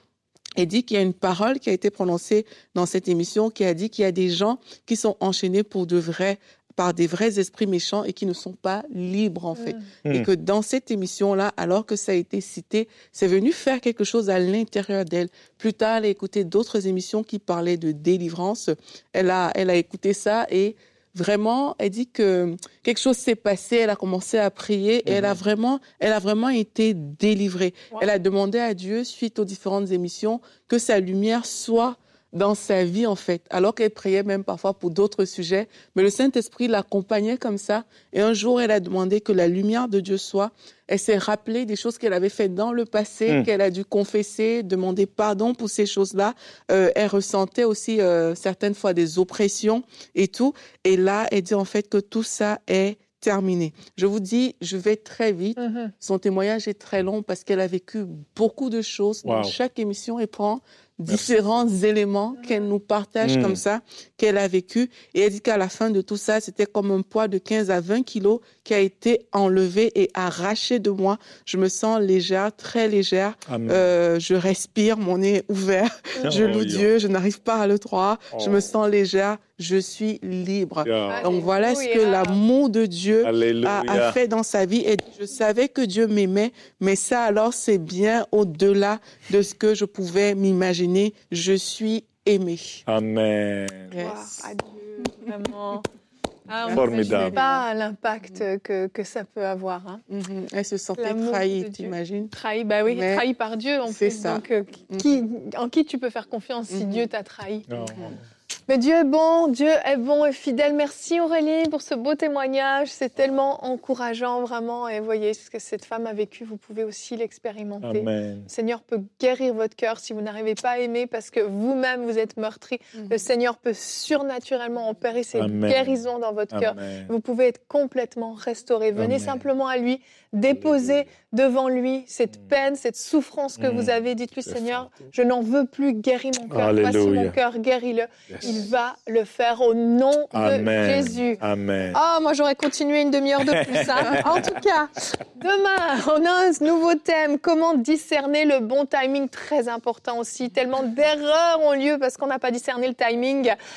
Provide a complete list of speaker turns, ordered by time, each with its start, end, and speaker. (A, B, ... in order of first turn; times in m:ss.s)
0:00.6-1:32.8 A
0:25.1-0:25.4 B
0:55.6-0:55.9 C
0:59.2-0:59.6 B
1:01.1-1:01.3 B
1:03.2-1:03.6 B
1:13.5-1:13.9 B
1:16.2-1:16.9 B
1:18.4-1:18.6 B
1:20.8-1:21.3 B
1:21.1-1:22.4 C
1:23.2-1:24.2 B
1:32.9-1:34.0 B
1:33.9-1:34.3 A
1:34.0-1:35.9 C
1:36.5-1:40.0 C
1:36.7-1:37.6 A
1:36.7-1:37.4 B
1:40.1-1:42.3 A
1:41.0-1:47.7 C
1:42.9-1:43.2 A
1:43.9-1:45.1 A
1:46.7-1:47.1 A
1:47.7-1:48.1 B
1:47.9-1:48.2 A
1:48.7-2:21.4 C
1:57.8-1:58.5 B
2:05.4-2:06.0 B
2:06.5-2:07.1 B
2:09.0-2:09.4 B
2:10.5-2:10.9 B
2:13.6-2:13.9 B
2:14.5-2:14.9 B
2:16.5-2:17.4 B
2:20.3-2:22.0 B
2:21.9-2:33.6 C
2:23.6-2:24.4 B